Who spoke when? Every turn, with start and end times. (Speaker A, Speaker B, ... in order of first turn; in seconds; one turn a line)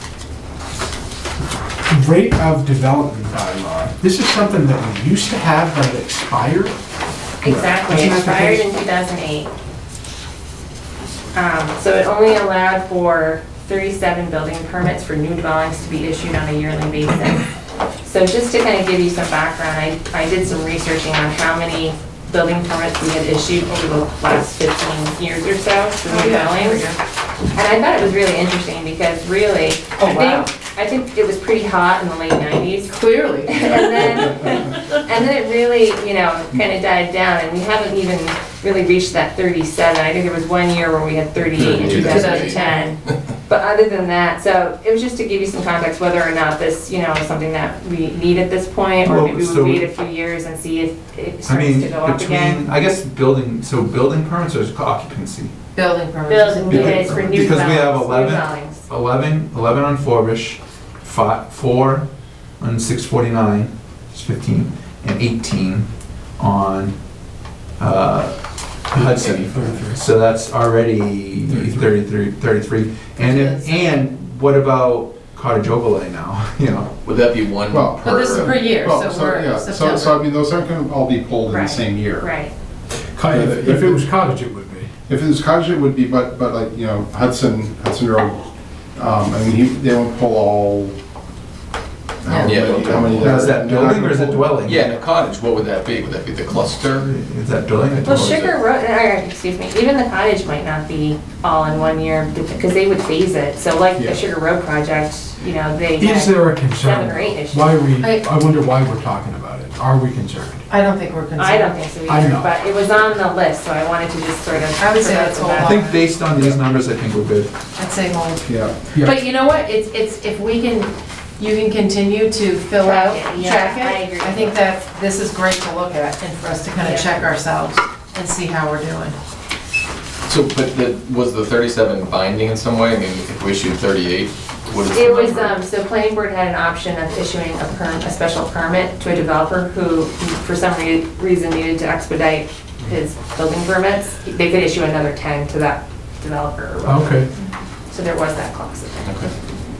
Speaker A: 1.9-6.7
Speaker B: 7.4-9.5
Speaker A: 7.4-8.6
Speaker B: 11.3-17.4
Speaker B: 18.0-26.8
Speaker C: 26.1-27.0
Speaker B: 27.5-52.6
Speaker C: 30.0-30.4
Speaker C: 32.9-34.3
Speaker D: 41.5-43.1
Speaker C: 41.7-42.8
Speaker E: 49.0-49.9
Speaker E: 51.5-55.5
Speaker C: 55.7-57.5
Speaker B: 56.3-58.8
Speaker E: 56.7-62.0
Speaker E: 62.6-65.9
Speaker E: 66.4-66.9
Speaker E: 67.8-68.4
Speaker E: 68.9-76.9
Speaker D: 69.0-69.8
Speaker A: 69.5-70.0
Speaker C: 73.2-74.1
Speaker D: 77.0-78.5
Speaker F: 77.7-82.3
Speaker C: 78.0-80.2
Speaker B: 81.5-82.5
Speaker A: 83.1-84.9
Speaker F: 83.3-84.0
Speaker F: 85.1-88.4
Speaker F: 88.9-90.9
Speaker F: 92.2-94.6
Speaker C: 92.3-92.6
Speaker D: 92.4-93.5
Speaker E: 93.2-95.0
Speaker D: 94.6-97.1
Speaker E: 97.0-98.4
Speaker D: 97.7-98.5
Speaker B: 98.0-107.8
Speaker F: 104.0-104.2
Speaker A: 106.0-110.7
Speaker C: 108.0-108.2
Speaker C: 110.7-111.8
Speaker B: 111.3-115.8
Speaker A: 112.1-112.5
Speaker C: 114.8-116.1
Speaker E: 115.6-117.5
Speaker C: 117.8-129.2
Speaker F: 118.4-118.7
Speaker B: 122.8-124.5
Speaker B: 126.8-127.2
Speaker D: 130.2-135.6
Speaker B: 134.9-149.1
Speaker A: 146.8-147.3
Speaker D: 149.0-149.3